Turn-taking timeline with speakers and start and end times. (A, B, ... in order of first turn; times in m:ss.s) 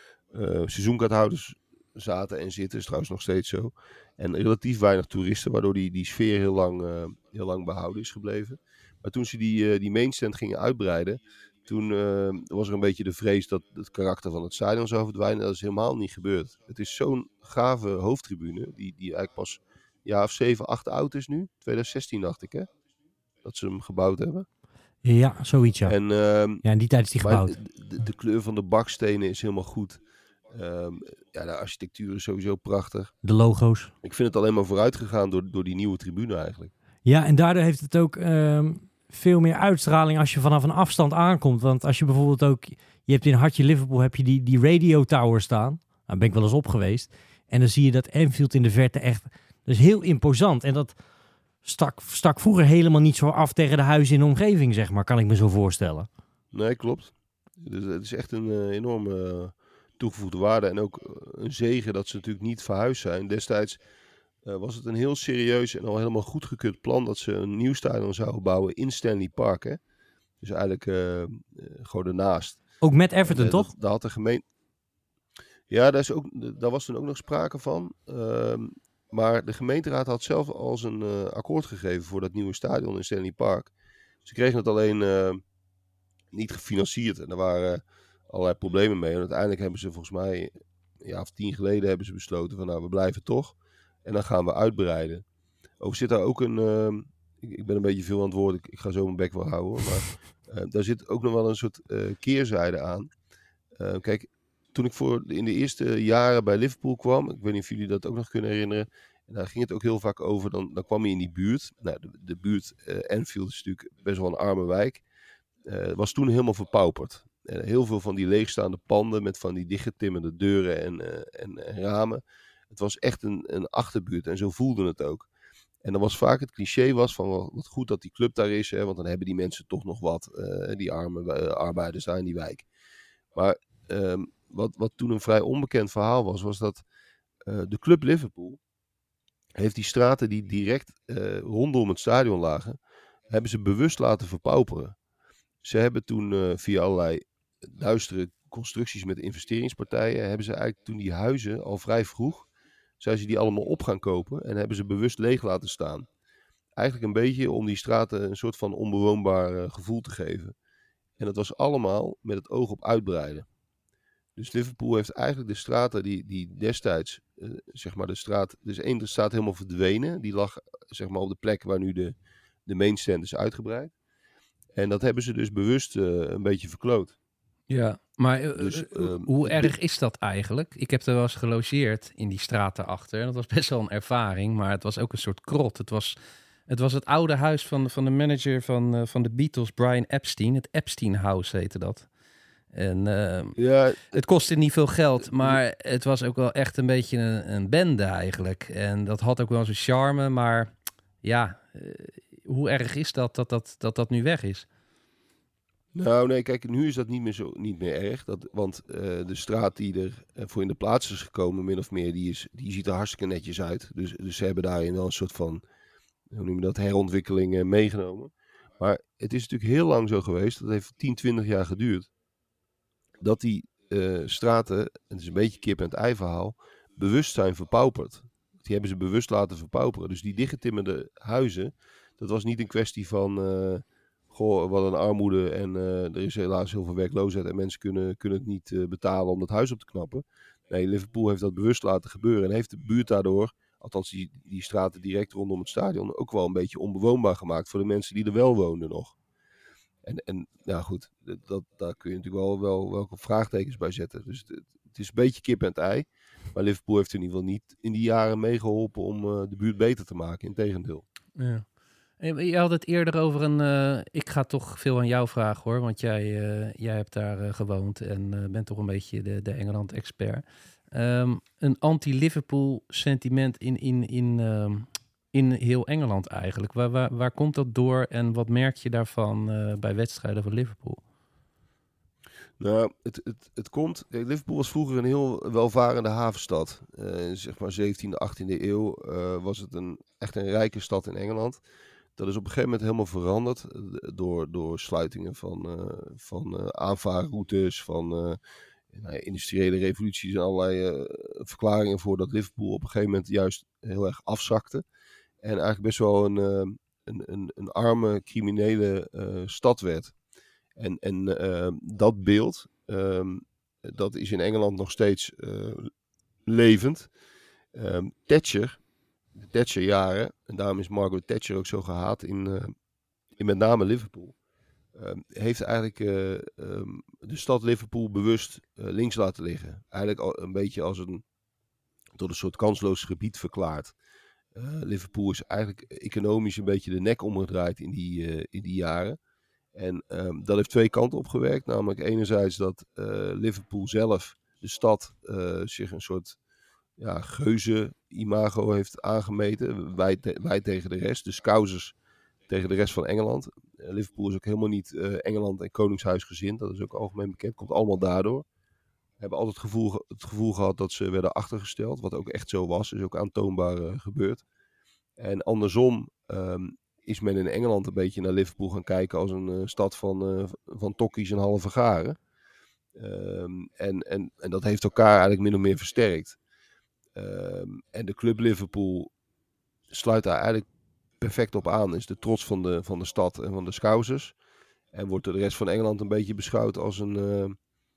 0:00.3-0:22.7 A
0:23.4-0:24.5 A
0:25.0-0:26.0 B
0:25.8-0:26.6 A
0:26.6-0:27.6 B
0:27.2-0:33.1 A
0:33.2-0:33.9 B
0:34.0-0:36.7 A
0:37.0-0:50.9 B
0:51.6-0:56.1 B
0:56.5-1:03.8 A
1:04.4-1:09.8 A
1:10.4-1:12.6 A
1:12.8-1:13.7 B
1:13.2-1:14.4 A
1:15.7-1:23.7 A
1:24.2-1:25.4 A
1:26.3-1:35.2 A
1:35.8-1:43.1 A
1:43.8-1:55.0 A
1:55.6-2:05.3 A
2:05.8-2:12.6 A
2:13.3-2:16.8 A
2:17.4-2:18.6 A
2:19.5-2:22.8 A
2:23.3-2:25.0 A
2:25.6-2:32.5 A
2:33.0-2:36.1 A
2:36.8-2:40.5 A
2:41.2-2:43.5 A
2:44.4-2:53.9 A
2:54.7-2:57.1 A
2:57.7-3:06.2 C
2:58.6-2:59.7 A
3:06.7-3:12.1 C
3:12.7-3:13.6 C
3:13.6-3:14.2 A
3:14.1-3:20.7 C
3:21.2-3:24.6 C
3:25.9-3:35.6 A
3:36.3-3:42.1 A
3:43.2-4:09.2 A
4:10.0-4:21.0 A
4:21.4-4:21.6 C
4:22.2-4:41.0 C
4:42.6-4:51.6 A
4:52.2-4:58.4 A
4:58.9-5:04.8 A
5:05.4-5:10.1 A
5:10.8-5:15.9 A
5:16.4-5:17.1 A
5:17.7-5:18.8 A
5:19.4-5:22.7 A
5:23.4-5:24.3 A
5:24.9-5:31.2 A
5:32.2-5:33.9 A
5:34.5-5:39.2 A
5:39.7-5:46.4 A
5:47.0-5:51.9 A
5:52.5-5:58.4 A
5:59.2-6:04.4 A
6:05.2-6:12.2 A
6:12.9-6:16.4 A
6:17.1-6:19.1 A
6:19.9-6:20.6 A
6:21.2-6:24.3 A
6:24.9-6:27.6 A